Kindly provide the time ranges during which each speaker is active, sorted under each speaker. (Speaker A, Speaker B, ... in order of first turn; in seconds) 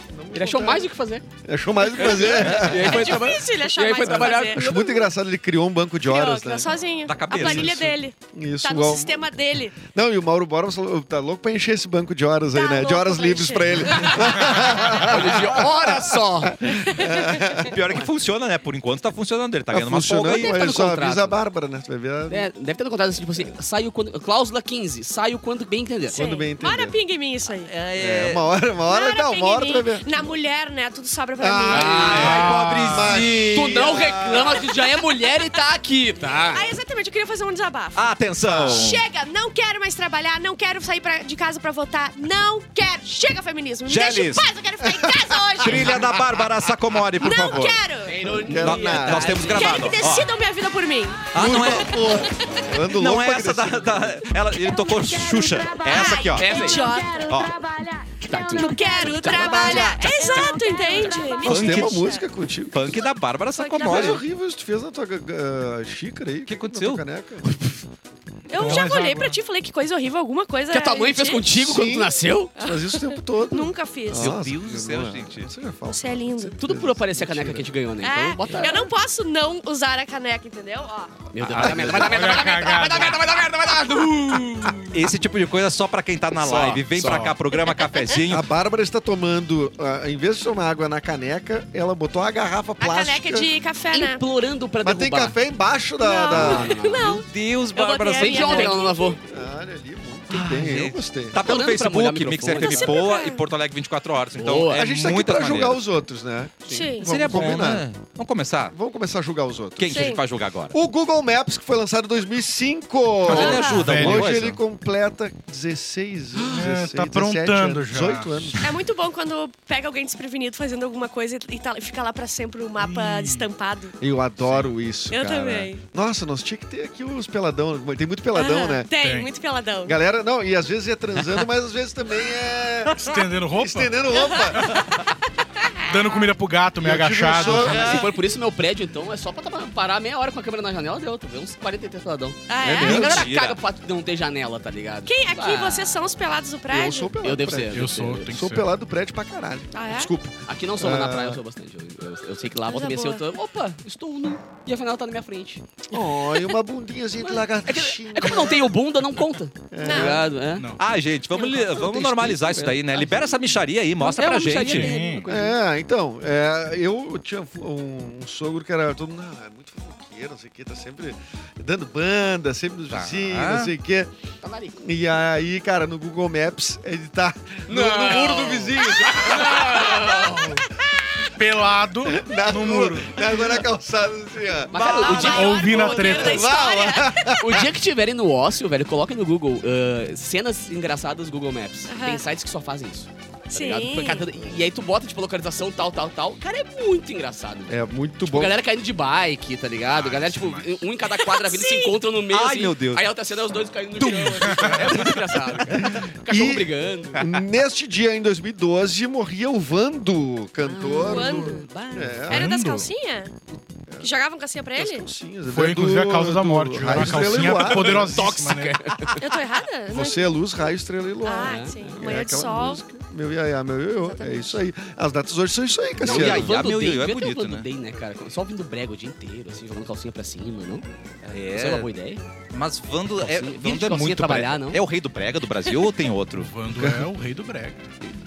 Speaker A: 0.1-0.9, 1.4-3.2, 4.0-6.7, 7.3-17.8, 19.7-22.5, 26.1-27.0, 28.0-30.4, 31.4-34.2, 45.6-46.0, 48.2-49.5, 51.3-54.3, 61.4-63.1, 63.8-67.5, 71.5-77.8, 81.5-82.0, 86.3-86.9, 88.3-93.5, 94.8-96.7, 99.3-101.4, 104.7-107.9, 108.7-110.1, 110.7-118.6, 124.0-128.9, 129.9-134.8, 136.8-138.0, 142.6-143.3, 146.7-151.4, 155.9-158.7, 159.7-160.3, 165.3-174.1, 174.8-180.4, 182.1-185.3, 186.0-187.6, 197.7-198.6, 205.7-212.5, 214.8-218.1, 219.9-226.6, 236.8-237.1
Speaker B: 0.3-1.2, 2.0-4.6, 14.9-16.8, 20.3-21.4, 22.3-26.2, 31.7-32.5, 33.4-36.7, 48.0-49.9, 56.3-57.0, 58.1-61.5, 70.7-72.5, 76.6-78.9, 81.3-85.0, 87.0-87.3, 93.9-95.4, 96.3-97.2, 98.2-99.2, 101.4-103.0, 104.3-104.9, 106.7-106.9, 137.6-146.0, 147.2-148.5, 150.4-156.0, 157.2-160.7, 161.4-163.5, 164.0-165.6, 174.4-174.8, 177.7-180.7, 184.7-186.2, 187.3-207.2, 210.6-212.3, 217.3-219.2, 221.4-222.0, 226.0-230.8, 231.5-232.2, 233.2-234.8
Speaker C: 1.8-5.1, 6.0-9.8, 12.5-15.0, 16.9-17.5, 26.1-27.7, 28.9-32.2, 34.9-35.6, 36.5-46.1, 47.2-48.2, 49.4-52.7, 54.7-55.2, 55.7-57.5, 58.3-62.2, 63.5-64.2, 68.5-71.4, 72.6-74.4, 75.9-76.6, 78.0-81.1, 92.8-94.2, 96.0-99.2, 102.6-103.4, 106.7-107.6, 109.9-110.2, 113.3-113.8, 118.6-124.0, 125.1-125.8, 128.3-130.0, 134.1-135.1, 135.6-135.9, 142.5-143.2, 145.1-147.1, 149.7-150.1, 152.7-153.2, 159.8-160.2, 161.3-161.7, 184.8-187.4, 191.9-192.3, 193.5-194.3, 201.1-202.0, 211.0-211.7, 212.3-213.3, 214.0-215.1, 219.2-220.3, 221.2-222.8, 224.0-224.6
Speaker D: 7.1-7.8, 17.6-20.6, 27.7-28.4, 31.7-34.7, 38.0-39.0, 43.9-44.5, 45.6-47.8, 48.5-50.3, 51.3-52.1, 52.9-56.7, 57.3-57.6, 59.3-60.5, 61.4-62.1, 62.7-64.2, 66.5-67.0, 74.2-75.5, 81.5-82.4, 84.9-88.5, 96.9-98.7, 100.3-105.8, 107.0-108.8, 109.8-110.8, 113.2-114.6, 137.4-138.1, 142.8-143.6, 160.8-164.9, 172.9-173.7, 184.8-185.6, 202.3-203.1, 207.2-207.4, 226.0-227.7, 231.2-231.9, 232.5-236.5
Speaker E: 32.1-33.3, 68.6-69.4, 82.0-83.2, 87.0-87.4, 113.5-114.4, 116.4-118.7, 122.8-123.5, 124.4-124.7, 129.0-129.3, 132.9-134.2, 135.8-137.9, 147.7-148.7, 160.6-160.8, 164.6-165.3, 181.4-183.3, 185.2-186.5, 199.9-200.9, 204.0-205.2, 212.3-212.9, 215.5-218.9, 236.3-237.9